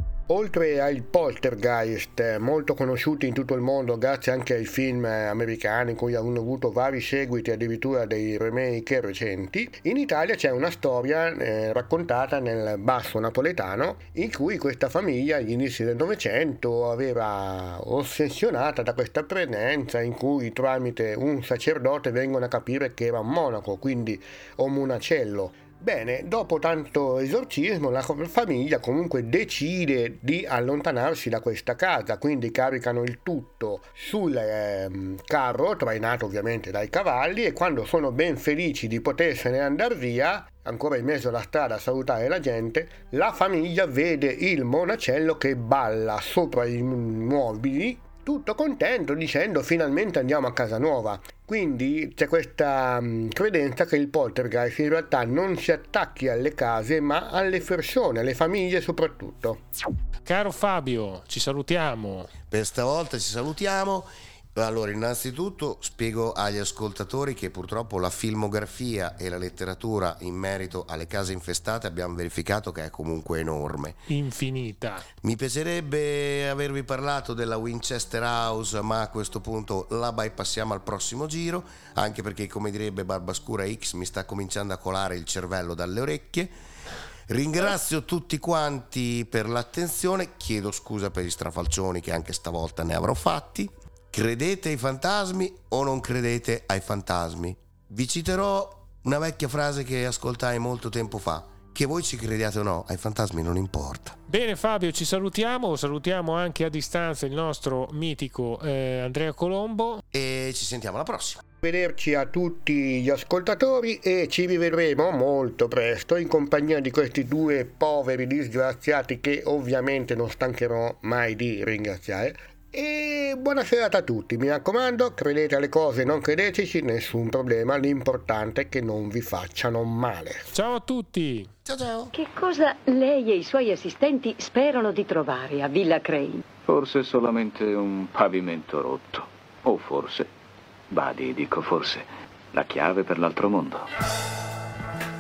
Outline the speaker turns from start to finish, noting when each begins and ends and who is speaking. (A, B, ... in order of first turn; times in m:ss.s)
0:00.3-0:59.6 A
1:00.2-1:02.3 B
1:02.5-1:14.0 C
1:14.1-1:15.1 B
1:15.2-1:26.5 C
1:27.3-1:44.2 C
1:44.3-1:50.0 B
1:50.1-1:51.4 C
1:51.6-2:10.5 A
2:10.5-2:11.5 B
2:11.6-2:12.1 C
2:12.1-2:16.4 D
2:16.6-2:20.3 E
2:20.9-2:23.9 E